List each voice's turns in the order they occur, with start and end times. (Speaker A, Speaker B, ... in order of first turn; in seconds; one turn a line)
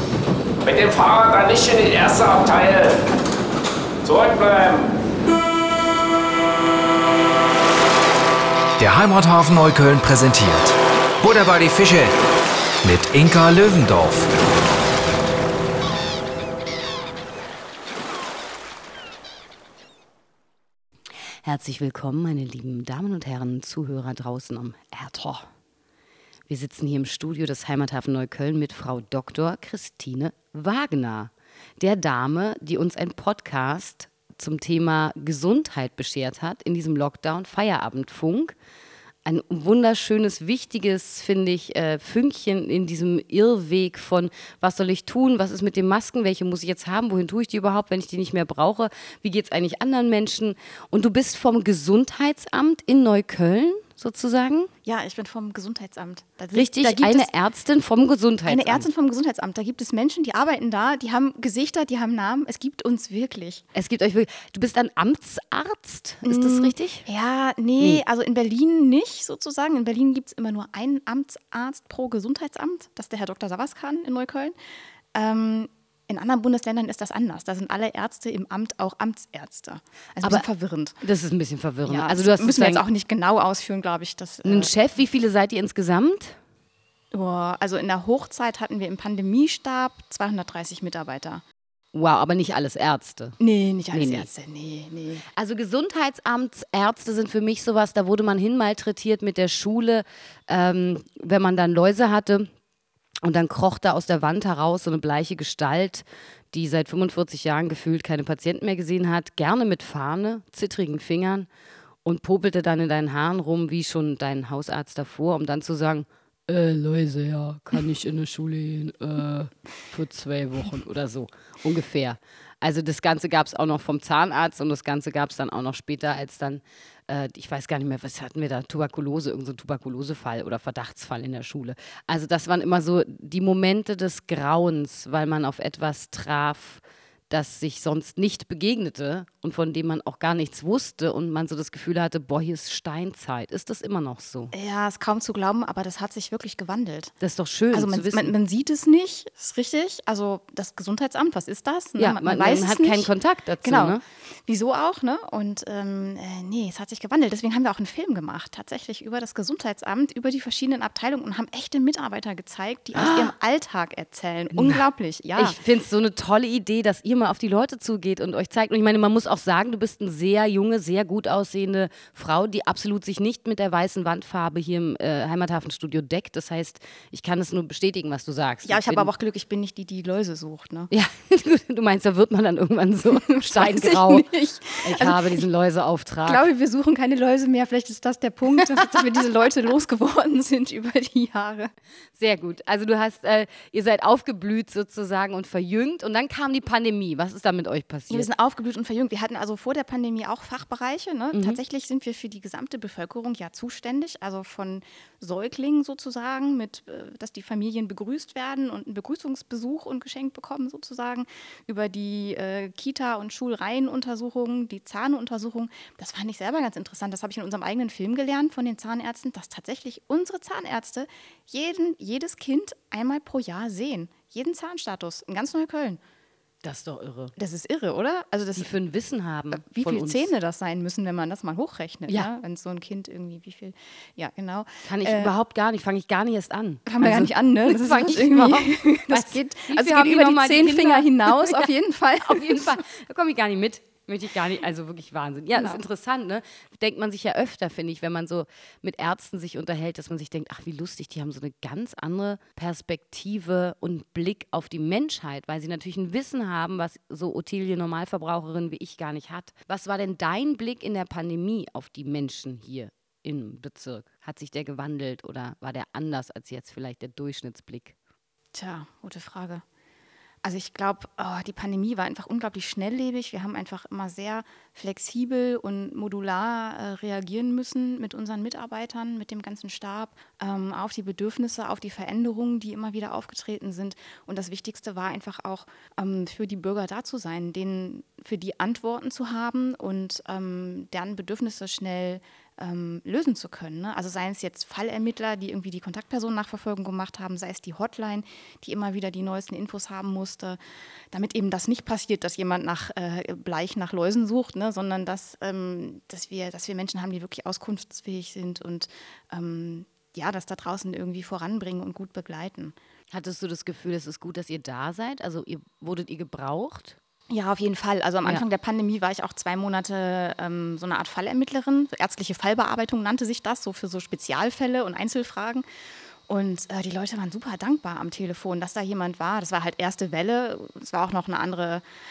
Speaker A: 0.6-3.0
Speaker A: 4.0-4.9
Speaker B: 8.8-12.1
Speaker B: 12.8-14.3
Speaker C: 21.4-25.4
Speaker C: 26.5-38.5
Speaker C: 39.2-54.7
Speaker D: 54.8-57.3
Speaker C: 56.5-58.9
Speaker D: 58.5-63.6
Speaker C: 63.7-67.0
Speaker D: 66.2-74.5
Speaker D: 75.1-81.0
Speaker C: 81.0-82.8
Speaker D: 81.9-84.7
Speaker C: 84.4-86.4
Speaker D: 87.1-91.4
Speaker C: 91.9-93.3
Speaker D: 93.4-95.2
Speaker C: 93.9-94.3
Speaker C: 95.3-102.5
Speaker C: 103.2-111.5
Speaker C: 112.0-144.5
Speaker D: 144.5-147.1
Speaker C: 147.2-148.3
Speaker D: 147.7-153.1
Speaker C: 152.0-154.0
Speaker D: 153.6-165.6
Speaker C: 162.9-163.3
Speaker C: 164.5-164.8
Speaker C: 165.3-179.1
Speaker D: 178.6-180.9
Speaker C: 180.9-184.2
Speaker D: 183.1-185.4
Speaker C: 184.8-186.5
Speaker D: 186.2-191.7
Speaker C: 192.2-198.3
Speaker D: 198.1-226.0
Speaker C: 201.3-201.6
Speaker C: 226.6-227.3
Speaker D: 227.3-228.7
Speaker C: 228.6-230.3
Speaker D: 229.5-235.3
Speaker C: 234.8-241.7
Speaker D: 236.8-242.8
Speaker C: 242.2-267.9
Speaker D: 245.5-245.8
Speaker D: 268.5-269.6
Speaker D: 270.4-300.6
Speaker D: 301.1-312.7
Speaker C: 313.1-317.0
Speaker D: 317.3-325.6
Speaker D: 326.3-331.8